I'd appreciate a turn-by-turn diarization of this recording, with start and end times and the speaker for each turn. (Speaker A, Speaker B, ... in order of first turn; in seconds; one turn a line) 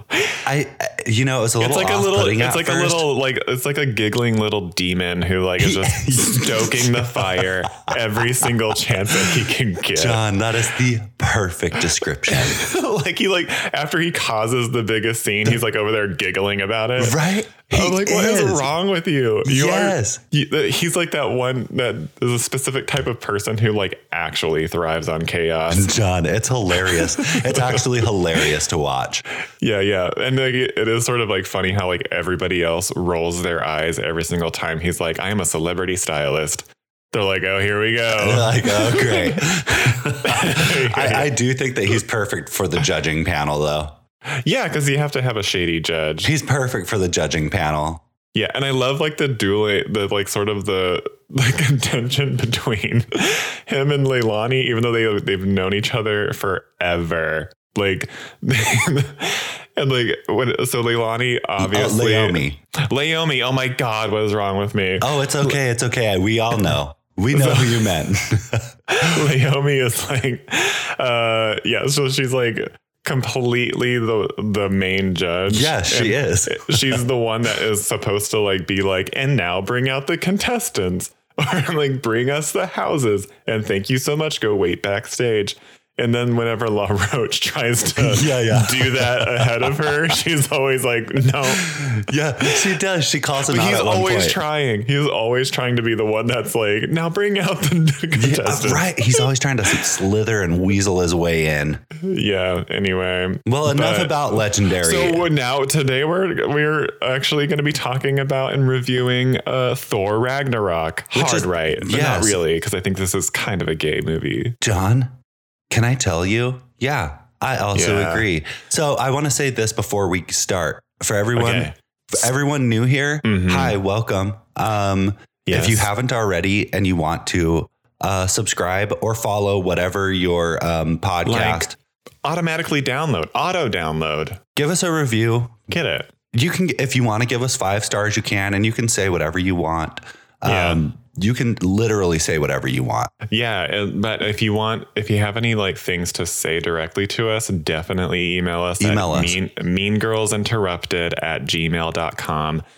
Speaker A: 0.1-0.4
Speaker B: 0.4-3.1
Speaker A: 1.6-10.2
Speaker B: 5.6-8.5
Speaker B: 9.9-12.6
Speaker A: 12.3-25.9
Speaker B: 17.0-18.7
Speaker B: 19.4-20.2
Speaker B: 25.7-29.2
Speaker A: 26.8-27.8
Speaker A: 29.6-41.3
Speaker B: 38.1-44.0
Speaker A: 44.4-46.3
Speaker B: 46.2-48.0
Speaker A: 48.3-65.6
Speaker B: 61.6-62.6
Speaker B: 65.0-69.1
Speaker A: 67.3-67.9
Speaker A: 68.9-91.8
Speaker B: 75.5-77.0
Speaker B: 88.0-89.9
Speaker B: 91.6-94.4
Speaker A: 93.5-99.2
Speaker B: 98.2-101.8
Speaker A: 102.0-114.6
Speaker B: 103.5-105.2
Speaker B: 111.1-112.4
Speaker B: 114.6-115.1
Speaker B: 115.7-131.8
Speaker A: 117.7-118.3
Speaker A: 121.3-121.7
Speaker A: 123.2-123.8
Speaker A: 125.4-125.9
Speaker A: 131.2-131.7
Speaker A: 132.2-134.4
Speaker B: 134.6-135.6
Speaker A: 135.7-136.1
Speaker B: 136.3-143.1
Speaker A: 140.4-140.8
Speaker A: 143.3-152.6
Speaker B: 148.8-149.3